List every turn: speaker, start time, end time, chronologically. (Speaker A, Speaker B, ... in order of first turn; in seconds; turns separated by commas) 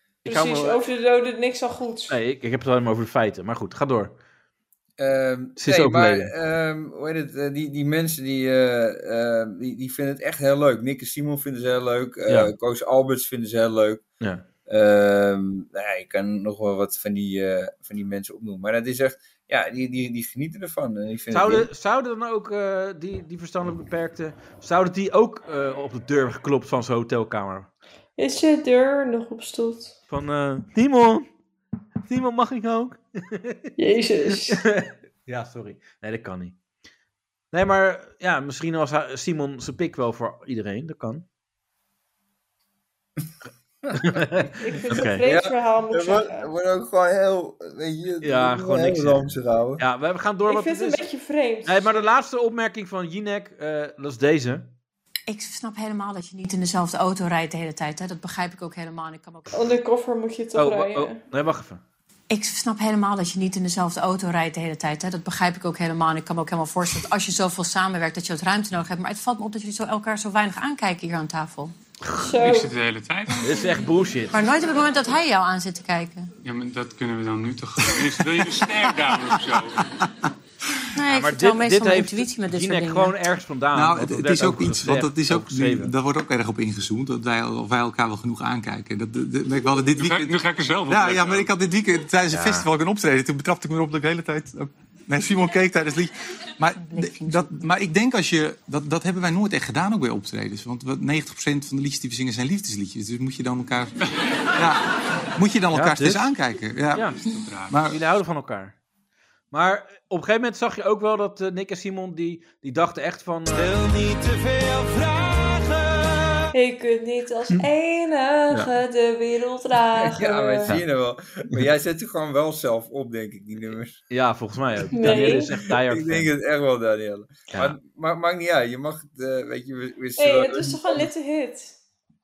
Speaker A: 0.2-2.2, Speaker B: 0.2-0.8, Speaker B: 2.1-4.2, Speaker C: 5.0-14.0, Speaker B: 5.6-6.3, Speaker B: 12.3-12.5, Speaker B: 14.2-14.4, Speaker C: 14.7-21.7, Speaker B: 21.3-27.7, Speaker A: 28.2-30.0, Speaker B: 30.1-31.3, Speaker B: 32.1-33.7, Speaker A: 33.8-34.6, Speaker B: 34.5-36.5, Speaker B: 37.5-41.2, Speaker B: 43.9-45.2, Speaker A: 44.6-46.5, Speaker C: 45.2-49.8, Speaker B: 48.2-51.0, Speaker A: 50.5-52.0, Speaker B: 51.6-54.7, Speaker D: 55.3-59.6, Speaker A: 59.5-61.2, Speaker B: 60.5-61.8, Speaker D: 62.3-71.7, Speaker A: 72.2-72.7, Speaker E: 72.3-73.9, Speaker B: 73.4-74.4, Speaker D: 74.3-76.3, Speaker E: 76.4-79.9, Speaker F: 77.8-80.1, Speaker D: 81.0-83.1, Speaker B: 81.1-85.9, Speaker F: 83.7-103.9, Speaker E: 90.0-91.5, Speaker B: 92.3-92.7, Speaker D: 96.7-97.6, Speaker F: 104.5-108.0, Speaker B: 105.7-106.3, Speaker B: 106.9-107.2, Speaker B: 107.8-108.8, Speaker B: 109.5-116.5, Speaker A: 116.5-120.8, Speaker C: 119.9-124.0, Speaker B: 124.1-126.3, Speaker A: 125.0-125.5, Speaker C: 125.0-131.1, Speaker A: 130.2-131.8